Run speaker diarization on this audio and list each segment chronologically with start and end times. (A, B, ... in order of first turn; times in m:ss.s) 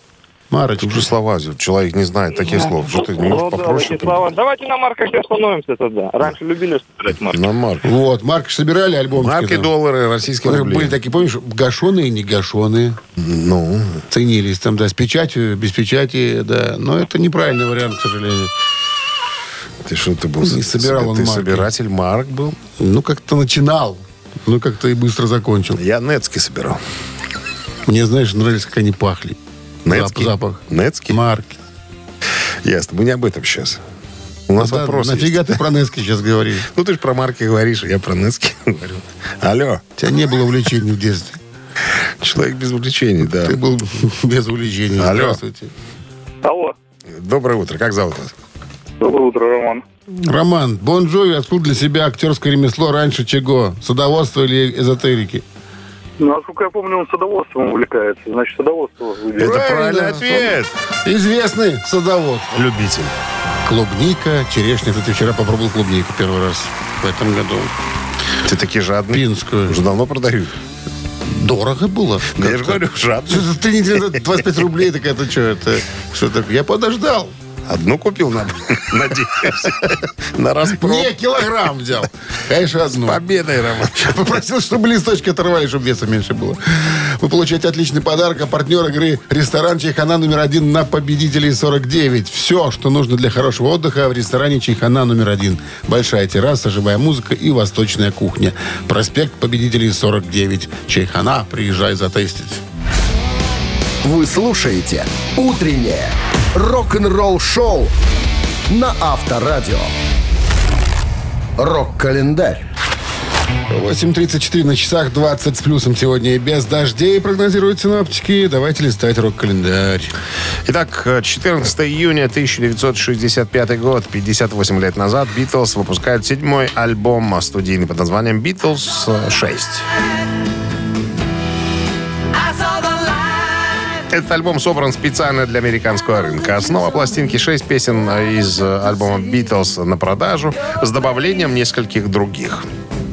0:00.5-0:01.1 A
0:00.8-0:04.2 B
0:03.2-0:07.5 C
0:07.3-0:07.9 B
0:07.8-0:09.7 A
0:09.2-0:11.0 B
0:10.4-0:13.0 A
0:13.2-0:14.0 B
0:14.1-0:18.5 A
0:19.9-0:22.6 B
0:20.4-0:21.7 A
0:22.8-0:25.8 A
0:25.8-0:26.8 B
0:27.9-0:31.6 A
0:29.9-0:31.2 B
0:32.6-0:33.8 B
0:34.5-0:35.5 B
0:34.6-0:36.7 A
0:36.8-0:39.8 B
0:40.0-0:41.4 A
0:42.2-0:43.6 B
0:43.2-0:45.7 A
0:45.0-0:45.4 B
0:46.4-0:46.8 D
0:47.2-0:48.3 B
0:49.0-0:49.8 D
0:50.1-0:55.4 A
0:56.2-0:59.6 D
0:59.4-1:00.7 B
0:59.4-1:02.6 A
1:02.6-1:03.1 B
1:03.6-1:07.7 A
1:08.5-1:10.5 B
1:09.1-1:09.8 A
1:11.2-1:17.3 A
1:12.4-1:13.5 B
1:17.7-1:21.1 B
1:20.7-1:23.2 A
1:23.0-1:24.2 B
1:23.9-1:42.6 A
1:44.0-1:47.9 E
1:48.7-1:49.9 E
1:51.6-1:52.7 E
1:53.7-2:00.1 A
2:00.7-2:09.9 B
2:14.1-2:22.6 B